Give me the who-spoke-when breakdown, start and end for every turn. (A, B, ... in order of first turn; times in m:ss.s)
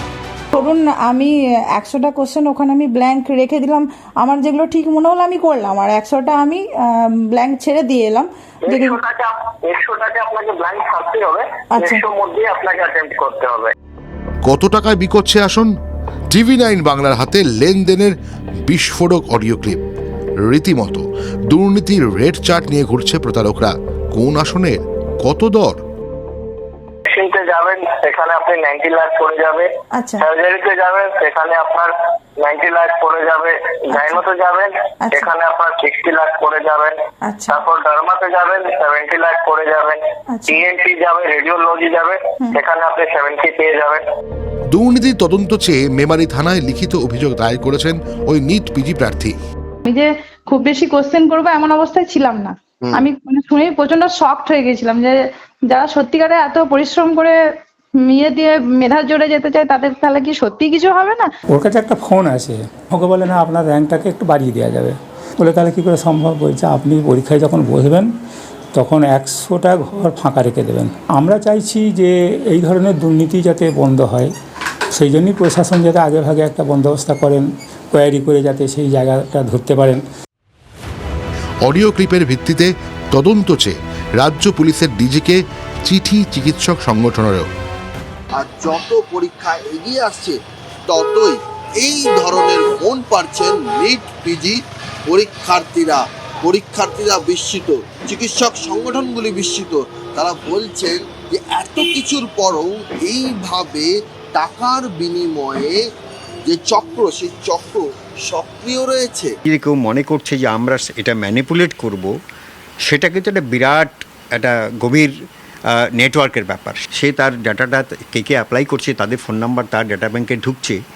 0:00.5-0:09.0 A
0:08.6-0:13.7 B
0:11.7-0:12.0 A
0:14.4-0:15.7 C
0:16.3-0:18.1 C
0:18.6-0:19.8 C
0:20.4-0:25.8 C
0:27.1-0:44.0 B
0:29.9-0:30.2 A
0:33.9-0:34.2 A
0:35.0-0:35.3 A
0:37.2-0:37.6 A
0:40.3-0:40.6 A
0:44.7-0:49.4 C
0:49.9-0:57.3 A
0:58.0-1:01.3 A
1:01.5-1:08.1 D
1:08.7-1:14.3 D
1:15.0-1:20.0 D
1:21.6-1:27.5 C
1:28.3-1:45.8 E
1:46.4-1:49.3 E
1:49.4-1:52.1 F
1:52.8-1:55.1 F
1:55.7-2:00.8 F